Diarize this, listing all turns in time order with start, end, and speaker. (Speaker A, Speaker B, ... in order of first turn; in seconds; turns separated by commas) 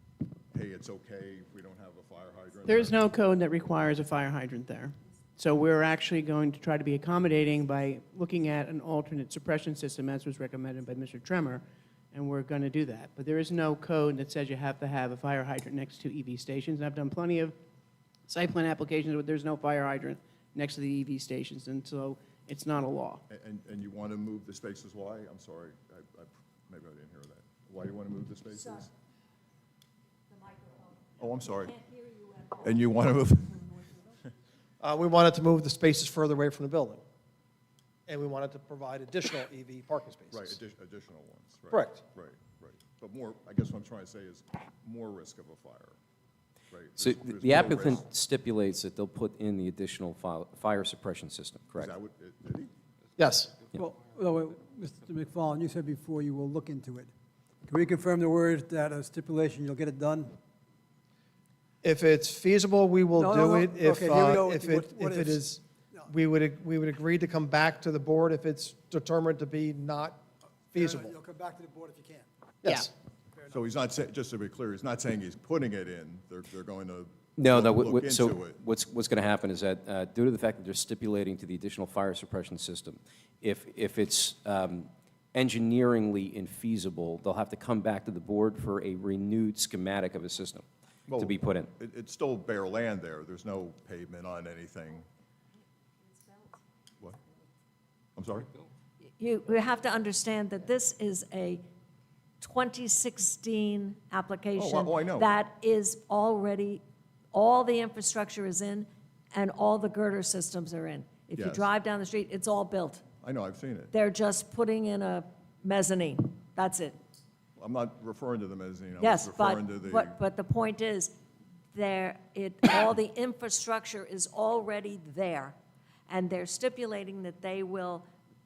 Speaker A: 0.5-3.0, Speaker B: 2.7-17.6, Speaker B: 18.3-23.2, Speaker A: 23.3-28.9, Speaker A: 31.1-34.2, Speaker C: 34.8-37.0, Speaker C: 38.1-40.5, Speaker A: 40.3-46.0, Speaker C: 41.7-42.0, Speaker A: 46.7-48.0, Speaker D: 47.0-51.9, Speaker A: 51.7-52.7, Speaker C: 53.2-53.5, Speaker E: 53.8-57.1, Speaker E: 57.6-60.3, Speaker C: 61.8-71.1, Speaker E: 63.2-66.1, Speaker E: 70.7-72.3, Speaker C: 72.6-72.9, Speaker A: 73.5-78.6, Speaker D: 77.4-91.7, Speaker A: 91.1-95.1, Speaker A: 98.2-98.5, Speaker F: 99.2-101.6, Speaker F: 102.4-106.8, Speaker A: 104.5-105.3, Speaker F: 107.3-113.0, Speaker A: 111.3-111.7, Speaker A: 113.2-113.9, Speaker F: 113.9-117.0, Speaker A: 117.5-120.2, Speaker F: 119.0-121.1, Speaker F: 121.7-125.6, Speaker F: 126.1-128.1